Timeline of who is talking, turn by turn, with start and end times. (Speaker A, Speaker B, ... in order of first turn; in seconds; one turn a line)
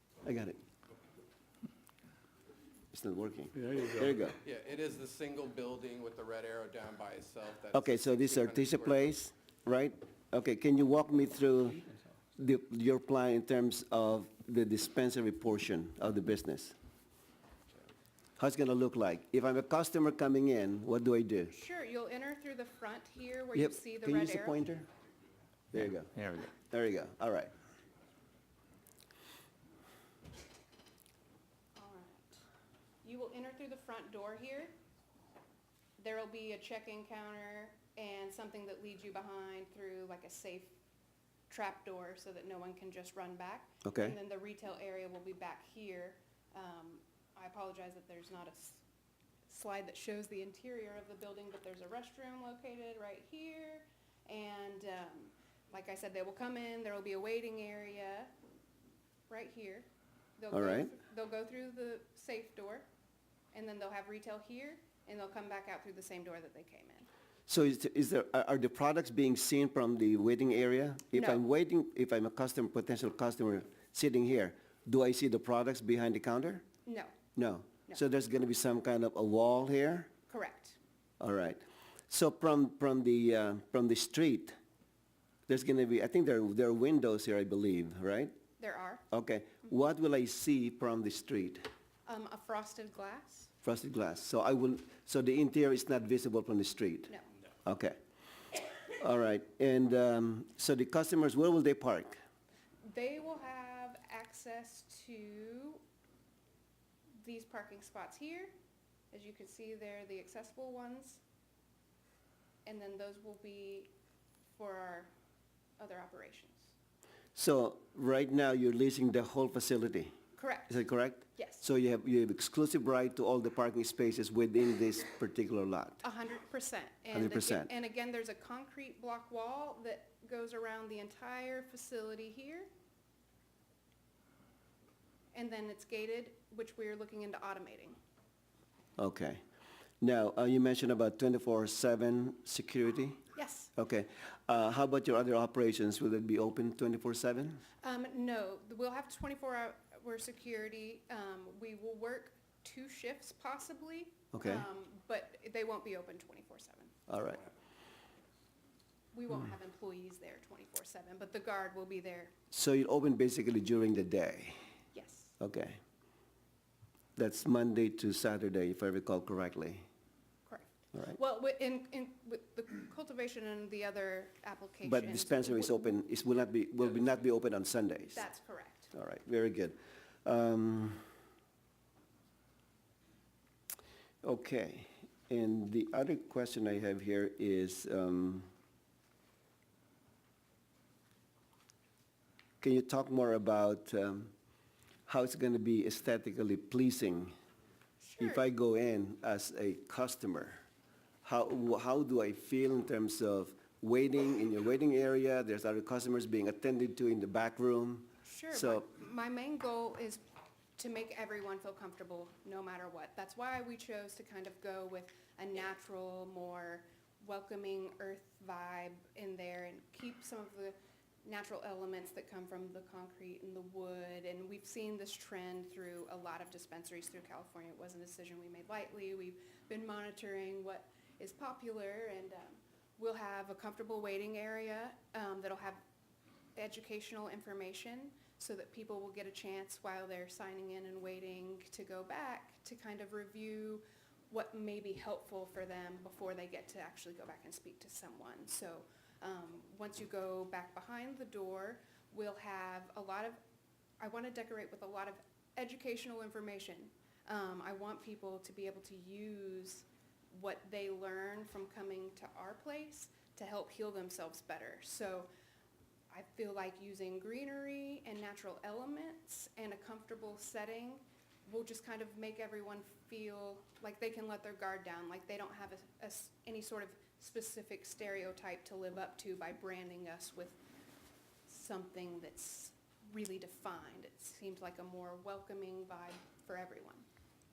Speaker A: 0.2-0.6
Speaker A: 2.9-4.4
Speaker B: 4.4-9.1
Speaker A: 7.7-16.7
Speaker A: 18.4-21.5
Speaker C: 21.5-24.6
Speaker A: 23.5-24.9
Speaker A: 25.7-27.5
Speaker C: 31.8-32.4
Speaker C: 33.0-34.7
Speaker C: 36.0-40.7
Speaker C: 41.5-48.8
Speaker A: 43.8-44.1
Speaker C: 49.5-58.3
Speaker C: 59.3-59.9
Speaker C: 60.4-62.9
Speaker A: 60.5-60.9
Speaker C: 63.5-67.1
Speaker A: 67.5-76.6
Speaker C: 71.1-71.4
Speaker C: 76.9-77.1
Speaker A: 77.3-80.1
Speaker C: 80.3-80.8
Speaker A: 81.2-84.6
Speaker A: 85.5-88.3
Speaker C: 88.6-89.0
Speaker A: 89.1-91.7
Speaker C: 92.0-93.5
Speaker A: 93.6-97.1
Speaker A: 97.6-98.0
Speaker A: 98.9-102.2
Speaker C: 102.8-105.8
Speaker C: 107.2-108.5
Speaker C: 109.1-111.2
Speaker C: 112.6-113.9
Speaker C: 114.5-115.1
Speaker C: 115.8-116.7
Speaker A: 117.3-120.1
Speaker C: 120.4-120.7
Speaker A: 120.7-126.0
Speaker C: 121.4-121.6
Speaker C: 126.0-132.7
Speaker A: 127.1-127.7
Speaker C: 135.3-138.0
Speaker A: 139.0-139.4
Speaker A: 140.0-143.2
Speaker C: 143.3-143.7
Speaker A: 143.8-147.6
Speaker C: 147.8-157.0
Speaker A: 154.3-154.7
Speaker A: 157.1-157.4
Speaker C: 159.1-162.3
Speaker A: 162.5-164.6
Speaker C: 164.9-165.3
Speaker A: 165.4-165.8
Speaker A: 167.2-169.8
Speaker C: 170.5-176.0
Speaker A: 174.8-178.2
Speaker C: 178.2-178.9
Speaker A: 178.9-181.0
Speaker A: 184.2-188.5
Speaker A: 192.6-194.3
Speaker A: 195.1-197.3
Speaker C: 198.0-198.4
Speaker A: 198.2-200.6
Speaker A: 201.2-208.9
Speaker C: 208.2-210.2
Speaker C: 210.8-235.8
Speaker C: 236.6-253.4
Speaker C: 254.0-265.3
Speaker C: 266.1-280.6
Speaker C: 281.5-287.1